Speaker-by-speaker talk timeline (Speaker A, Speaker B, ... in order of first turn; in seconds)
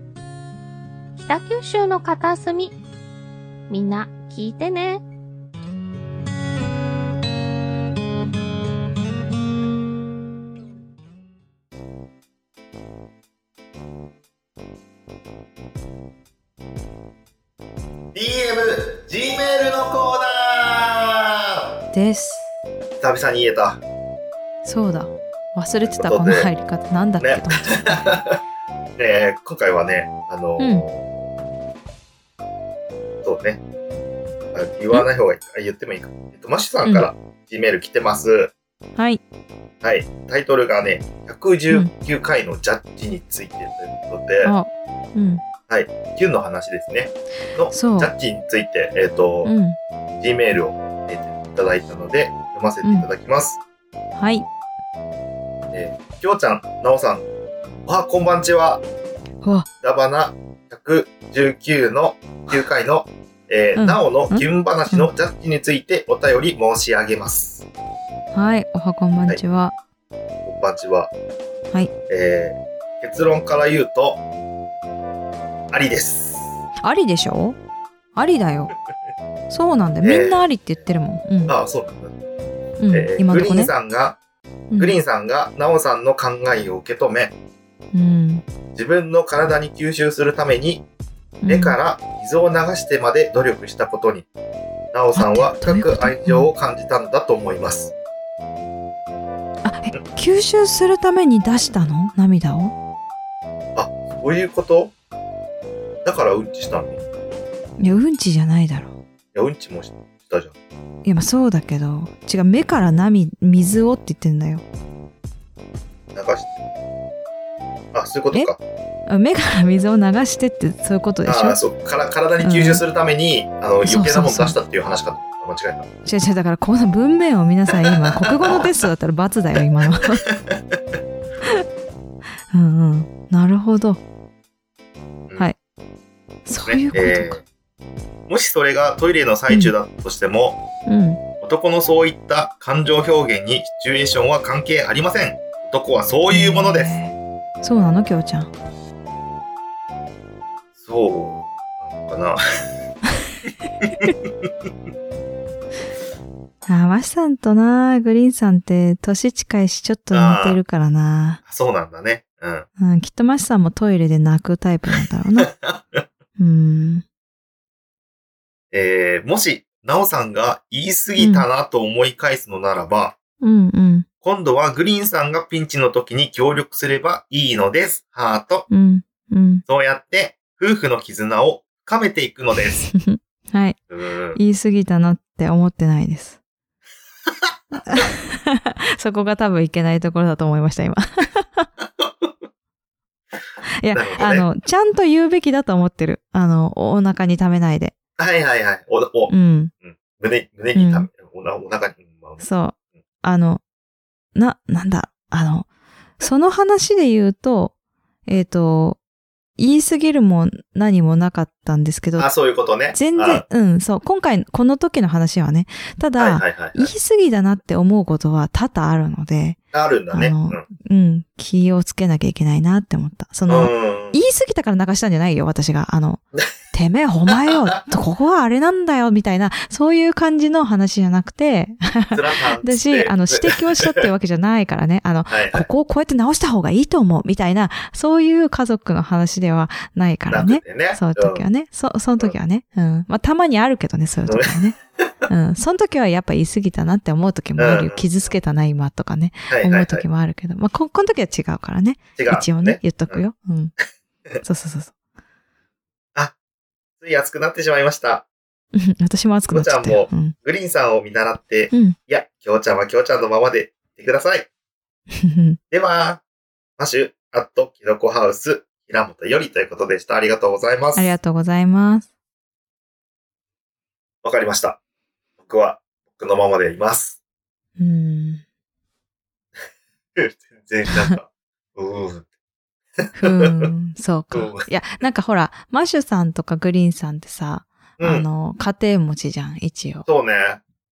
Speaker A: 1.1-2.8, 3.7-5.0
Speaker B: 18.1-21.7, 23.0-23.8, 25.8-26.5, 27.2-28.4, 29.0-31.1, 33.2-33.6, 34.5-38.5, 39.8-44.5, 45.7-49.5, 50.2-53.6, 55.7-57.2, 57.9-58.8, 59.8-67.7, 70.4-71.1, 72.1-74.2, 75.7-76.6, 80.0-80.5, 81.5-82.2, 82.9-84.2, 84.8-87.3, 88.7-90.8, 91.5-94.3, 94.9-97.9, 103.7-104.9, 106.0-107.0, 109.3-110.5, 116.1-116.5, 117.9-118.6, 121.2-125.9, 127.8-128.7, 130.2-130.8, 136.6-137.4, 138.3-140.6, 141.4-147.0, 150.8-152.4, 153.8-154.5, 160.1-160.6, 161.5-162.7, 165.4-166.0, 168.7-173.2, 174.2-178.7, 179.7-182.9, 183.9-184.4, 192.0-192.3, 193.9-194.4, 198.2-199.3, 199.8-202.4, 212.2-213.4, 216.2-216.9, 219.7-220.6, 223.5-224.2, 232.1-234.0, 235.3-235.7, 240.3-241.4, 244.3-244.6, 247.6-248.3, 249.5-250.0, 252.2-253.2, 257.0-258.2, 259.5-264.5, 265.7-266.2, 266.8-271.1, 274.2-274.8, 275.4-277.2, 280.1-282.3, 283.0-283.7, 284.3-284.7, 288.0-288.2, 290.1-290.6
Speaker C: 21.9-22.5, 24.6-28.1, 30.6-30.8, 36.8-37.1, 39.0-39.2, 44.4-45.4, 47.7-48.1, 49.4-49.8, 54.2-54.5, 63.8-65.1, 68.3-69.7, 76.8-77.6, 78.1-78.7, 79.5-81.5, 82.8-83.7, 84.7-85.0, 87.9-88.4, 91.4-91.8, 95.1-96.5, 99.6-102.7, 107.8-109.0, 111.0-114.6, 119.1-121.6, 122.4-122.8, 123.8-124.6, 126.0-130.2, 132.5-134.0, 136.4-137.4, 139.5-139.7, 140.8-141.2, 146.3-148.5, 156.7-161.4, 162.8-165.5, 166.4-167.0, 171.2-171.4, 173.4-174.1, 178.7-179.6, 182.9-183.8, 184.3-186.4, 187.8-191.7, 193.8-197.9, 199.3-199.7, 200.7-201.1, 202.4-203.6, 204.3-205.7, 206.2-207.7, 208.3-209.0, 209.6-212.3, 212.9-219.6, 220.1-244.8, 245.3-253.7, 254.4-254.9, 258.7-260.3, 265.1-265.6, 270.9-272.1, 277.8-278.4, 280.9-281.1, 283.1-290.1